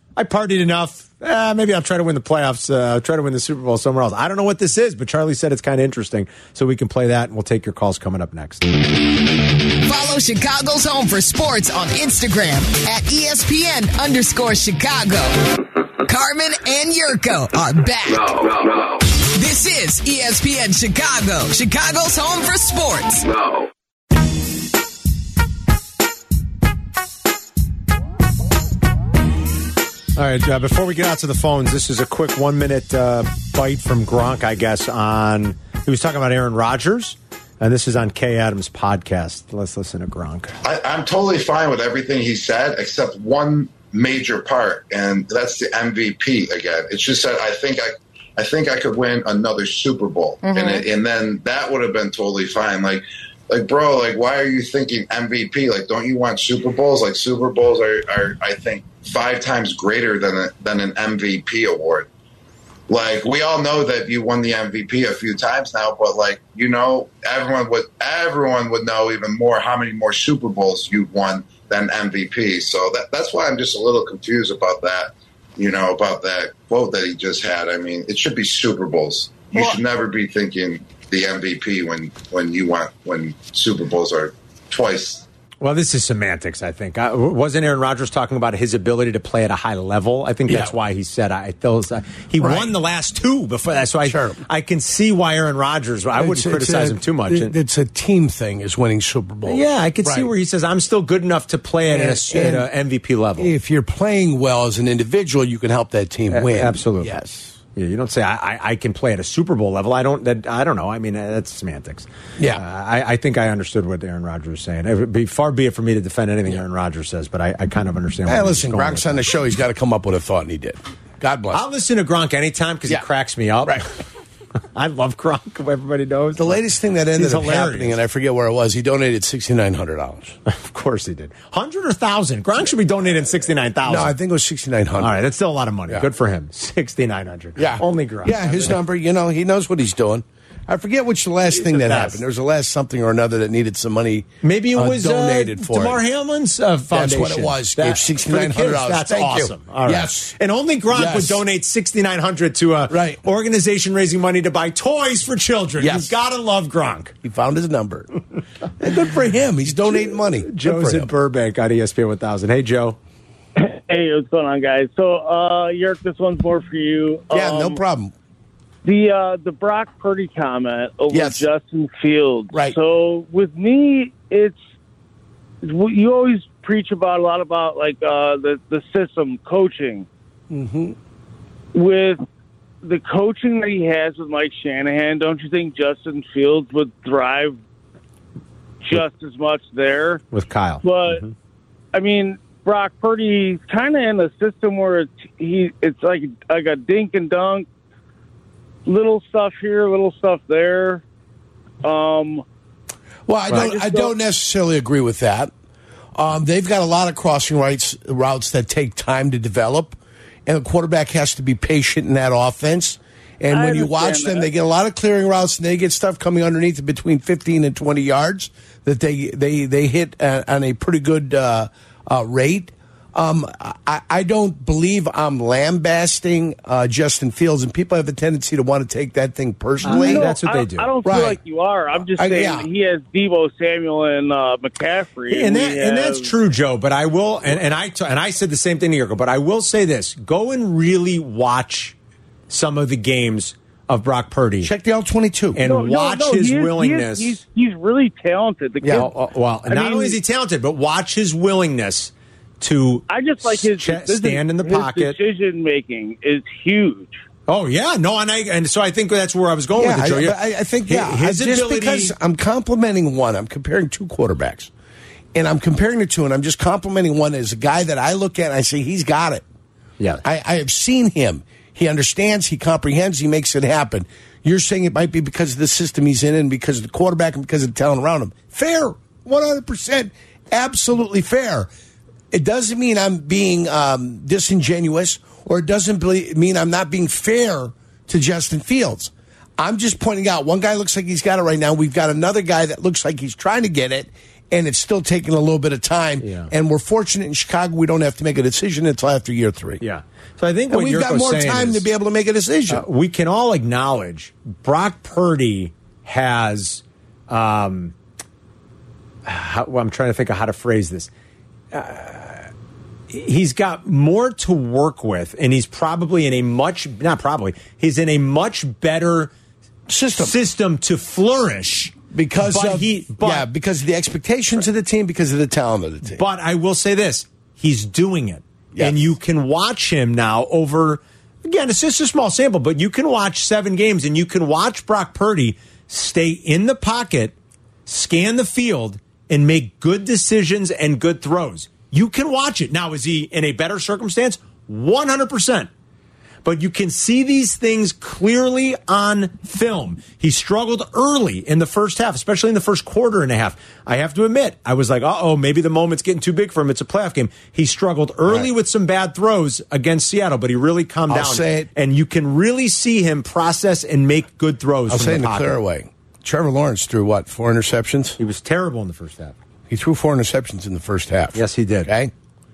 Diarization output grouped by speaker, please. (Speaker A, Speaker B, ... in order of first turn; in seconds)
Speaker A: 0.2-8.7, 30.2-40.5, 85.6-97.5, 99.5-103.5, 106.3-107.1, 107.8-119.3, 121.5-123.9, 124.7-126.6, 127.1-128.0, 130.5-134.1, 135.0-138.8, 141.6-142.2, 144.4-157.1, 159.9-163.0, 190.3-191.3, 229.8-230.9, 235.3-242.0, 242.5-244.7, 245.5-247.4, 248.9-255.2, 257.5-262.1, 270.0-270.2, 296.2-296.5, 299.8-301.9, 302.7-307.9, 309.2-311.1, 311.7-312.5, 313.1-319.3, 320.2-323.5, 326.1-337.3, 337.9-345.7, 346.4-365.6, 368.2-369.4, 371.3-371.9
Speaker B: 9.8-23.4
Speaker C: 40.6-62.1, 62.9-85.2
Speaker D: 90.5-90.7, 92.4-92.7, 94.0-94.4, 96.2-100.3, 101.9-102.7, 103.4-107.6, 112.4-112.6, 118.3-121.6, 126.4-130.4, 133.9-135.2, 137.6-146.0, 146.9-150.3, 150.9-151.4, 152.9-153.2, 155.8-156.1, 157.2-158.1, 158.8-161.1, 167.3-168.1, 171.1-171.5, 180.5-181.0, 203.3-205.5, 206.2-230.3, 231.1-231.4, 232.2-232.7, 244.6-245.6, 248.8-249.1, 259.8-264.7, 265.3-269.4, 270.2-281.7, 282.3-299.8, 300.7-302.9, 319.9-320.4, 322.1-326.2, 328.7-329.1, 361.1-361.7, 364.9-368.2, 369.7-372.1
Speaker E: 163.6-167.8, 168.8-174.6, 175.6-180.1, 181.7-182.2, 182.8-187.6, 188.8-190.2, 190.8-191.2, 191.9-197.7, 198.9-201.0, 201.8-202.4, 203.5-204.1, 213.5-214.5, 229.8-236.3, 245.7-249.1, 249.7-250.2, 253.1-257.2